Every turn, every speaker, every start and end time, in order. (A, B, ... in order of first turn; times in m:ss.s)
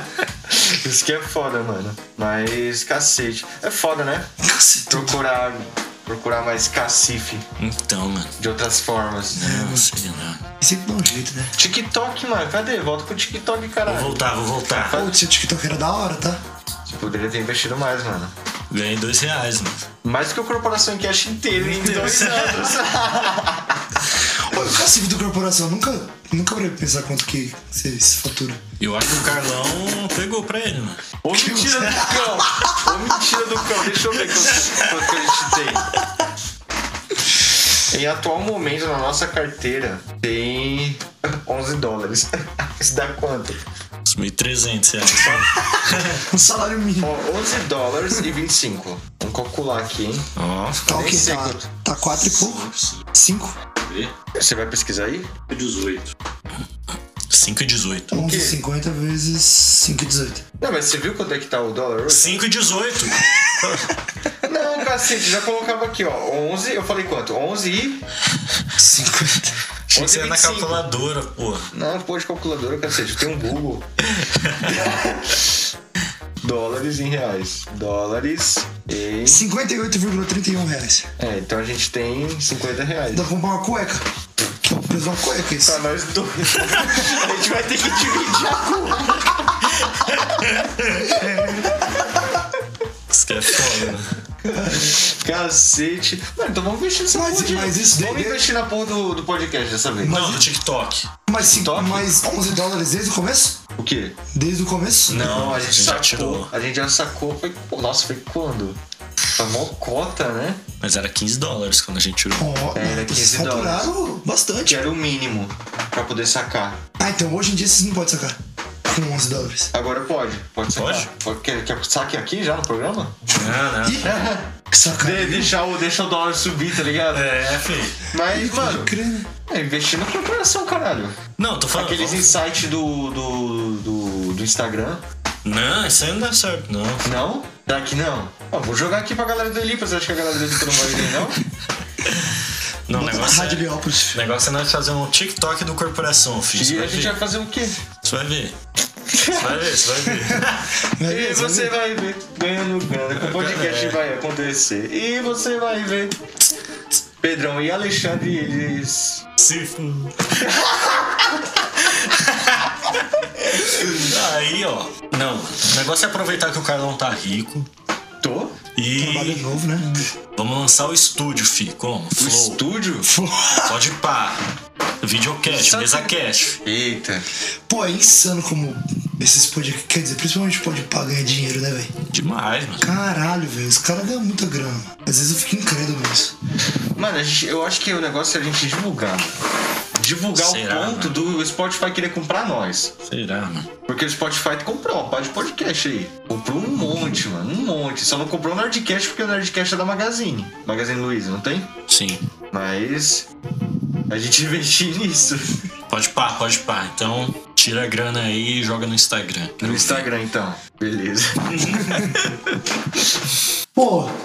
0:00.5-0:04.3 A
0:04.4-0:05.2 B
0:04.9-0:07.4 A
0:07.6-0:08.4 C
0:08.4-0:09.5 A
0:09.4-0:09.9 B
0:09.4-0:10.4 C
0:10.6-0:11.6 B
0:11.6-0:15.2 A
0:13.9-0:15.0 C
0:14.9-0:16.4 B
0:16.9-0:18.3 A
0:18.7-0:19.9 C
0:20.0-0:23.7 A
0:21.6-0:22.7 C
0:24.2-0:28.6 B
0:28.8-0:31.0 C
0:31.2-0:36.0 A
0:31.3-0:32.8 B
0:37.9-0:43.6 A
0:44.1-0:46.2 C
0:45.2-0:45.6 A
0:46.3-0:47.2 B
0:47.0-0:50.3 A
0:50.4-0:51.0 C
0:50.9-0:51.7 A
0:50.9-0:53.6 B
0:52.2-0:53.1 C
0:53.8-0:54.1 C
0:54.4-0:55.3 A
0:55.5-0:56.1 C
0:57.3-0:58.1 C
0:58.1-1:00.4 B
0:58.1-0:58.6 A
1:00.6-1:02.4 A
1:02.1-1:04.0 C
1:04.4-1:08.0 A
1:08.8-1:09.6 B
1:09.9-1:10.9 A
1:09.9-1:11.7 C
1:11.7-1:15.5 A
1:16.4-1:19.5 A
1:19.3-1:21.1 B
1:21.2-1:23.2 A
1:23.1-1:24.0 B
1:24.6-1:25.8 B
1:25.6-1:30.4 A
1:31.1-1:31.9 B
1:33.1-1:34.2 C
1:34.4-1:35.0 B
1:34.8-1:40.2 A
1:37.1-1:38.5 B
1:40.0-1:40.5 B
1:40.1-1:41.1 C
1:41.3-1:43.6 B
1:41.4-1:42.1 A
1:43.8-1:44.2 A
1:44.3-1:45.6 B
1:45.1-1:48.8 A
1:45.1-1:46.5 C
1:49.3-1:50.6 A
1:50.8-1:52.5 C
1:52.4-1:54.8 B
1:52.8-1:53.9 A
1:54.7-1:56.8 A
1:57.0-1:59.7 B
1:59.7-2:03.2 A
2:00.8-2:01.1 C
2:03.4-2:04.1 C
2:03.8-2:04.1 B
2:04.0-2:07.3 A
2:04.7-2:05.6 B
2:07.1-2:08.0 C
2:08.1-2:08.9 A
2:08.3-2:09.3 B
2:09.5-2:11.2 A
2:11.4-2:12.4 C
2:11.7-2:15.0 A
2:15.4-2:17.1 C
2:17.0-2:21.4 A
2:22.9-2:27.2 C
2:22.9-2:24.2 B
2:26.6-2:27.8 A
2:28.0-2:28.6 C
2:29.1-2:29.8 A
2:29.3-2:30.7 C
2:30.3-2:31.8 B
2:31.1-2:36.2 A
2:33.2-2:34.0 C
2:37.2-2:39.2 A
2:39.4-2:40.4 C
2:40.4-2:41.3 A
2:41.9-2:42.7 C
2:43.6-2:47.7 C
2:48.2-2:48.6 A
2:48.8-2:49.5 C
2:49.0-2:49.9 B
2:50.3-2:52.6 C
2:52.2-2:53.1 A
2:53.1-2:53.8 B
2:53.7-2:54.4 C
2:55.0-2:56.6 C
2:55.4-2:56.1 A
2:56.6-2:57.3 A
2:57.7-3:01.9 B
3:02.0-3:02.9 C
3:02.8-3:06.4 B
3:07.0-3:09.3 A
3:09.9-3:12.9 A
3:10.3-3:11.2 C
3:13.1-3:13.7 C
3:13.9-3:21.7 A
3:21.9-3:22.3 C
3:22.5-3:23.3 A
3:24.1-3:25.7 A
3:25.9-3:30.1 C
3:29.6-3:32.6 A
3:31.5-3:32.0 C
3:33.8-3:34.1 B